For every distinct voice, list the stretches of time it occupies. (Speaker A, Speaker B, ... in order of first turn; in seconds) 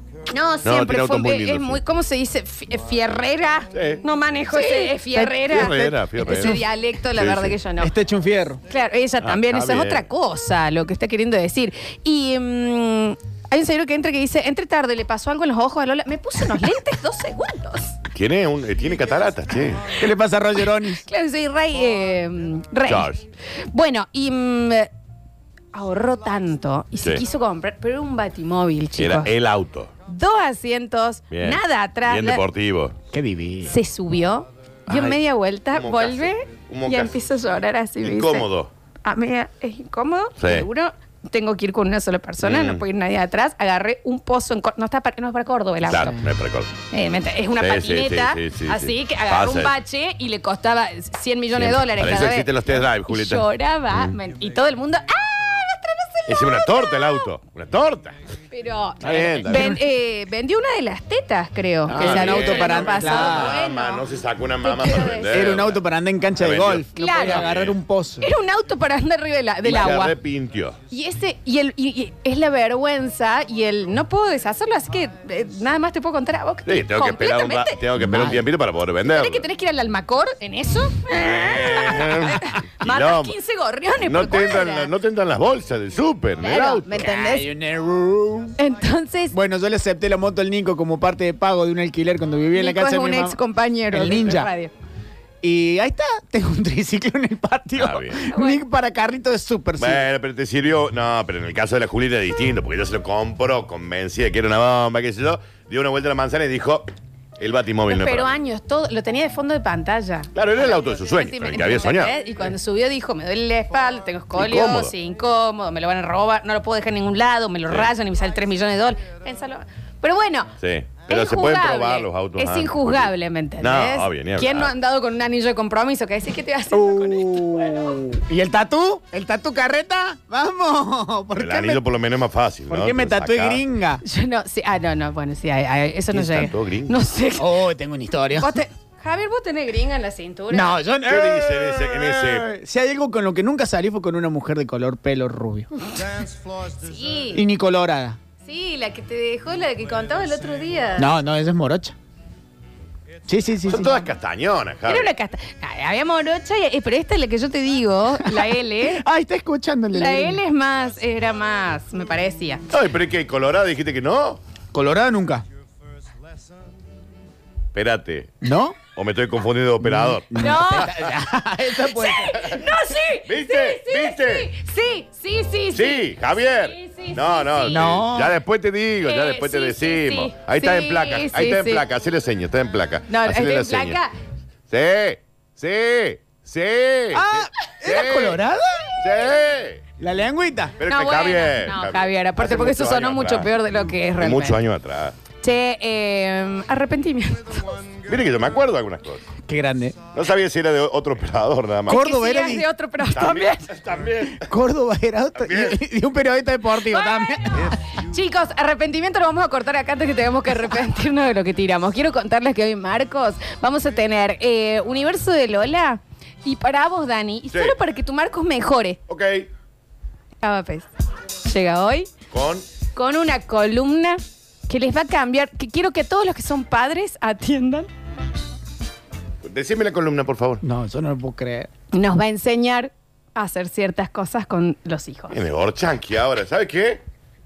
Speaker A: 0.3-7.9, 8.7-18.0, 20.7-23.1, 23.7-24.9, 25.7-29.3, 30.1-32.4, 33.6-38.5, 39.0-46.2, 46.9-57.3, 58.5-64.0, 64.6-65.6, 67.0-67.5, 68.2-70.1, 70.9-77.8, 79.1-84.9, 86.4-87.5, 88.6-89.3, 92.5-94.7, 98.2-98.6, 107.9-120.5, 121.1-128.0, 134.0-137.6, 138.4-140.7, 146.8-147.4, 148.4-151.1, 154.9-159.0, 159.9-162.6, 170.3-170.9, 171.8-178.1, 179.0-181.8, 183.1-184.1, 190.8-194.6, 195.4-197.8, 201.9-203.7, 206.8-219.0, 220.4-220.9, 221.4-222.1, 222.9-227.9, 231.9-235.4
Speaker B: 0.6-1.8, 3.7-4.0, 5.1-6.6, 7.1-7.5, 9.2-10.0, 18.1-20.0, 22.8-23.2, 29.0-29.9, 31.3-33.0, 34.9-35.2, 35.7-37.1, 38.0-38.7, 40.4-40.7, 42.4-42.8, 45.8-46.7, 47.6-49.7, 51.5-54.1, 56.3-58.1, 59.0-59.7, 61.9-65.8, 66.4-67.8, 69.6-70.8, 76.7-79.5, 81.1-83.3, 84.0-86.9, 97.7-98.2, 99.8-106.9, 107.4-108.3, 110.3-112.2, 114.3-114.9, 120.6-124.7, 131.4-133.6, 136.1-136.9, 141.0-142.5, 153.6-155.1, 162.7-164.4, 167.7-171.1, 172.4-174.5, 175.7-184.0, 184.7-188.4, 189.0-189.8, 190.8-195.2, 198.1-199.3, 200.1-202.0, 203.1-204.5, 205.3-205.8, 217.5-217.8, 219.1-219.5, 222.3-222.6, 229.4-230.6, 235.3-237.0
Speaker C: 4.5-5.1, 6.2-6.6, 7.8-8.6, 19.9-21.1, 33.1-33.7, 59.5-59.8, 61.9-63.6, 64.9-68.3, 78.0-78.4, 86.5-88.6, 89.3-93.4, 93.9-94.5, 95.4-100.0, 126.7-131.8, 132.7-134.0, 137.4-138.6, 140.5-146.2, 147.3-148.2, 151.0-151.9, 153.3-154.1, 158.2-160.4, 164.7-165.4, 168.4-168.8, 169.8-172.4, 177.7-178.4, 187.1-189.3, 190.0-190.8, 199.5-200.0, 201.9-202.7, 204.3-207.8, 230.6-231.7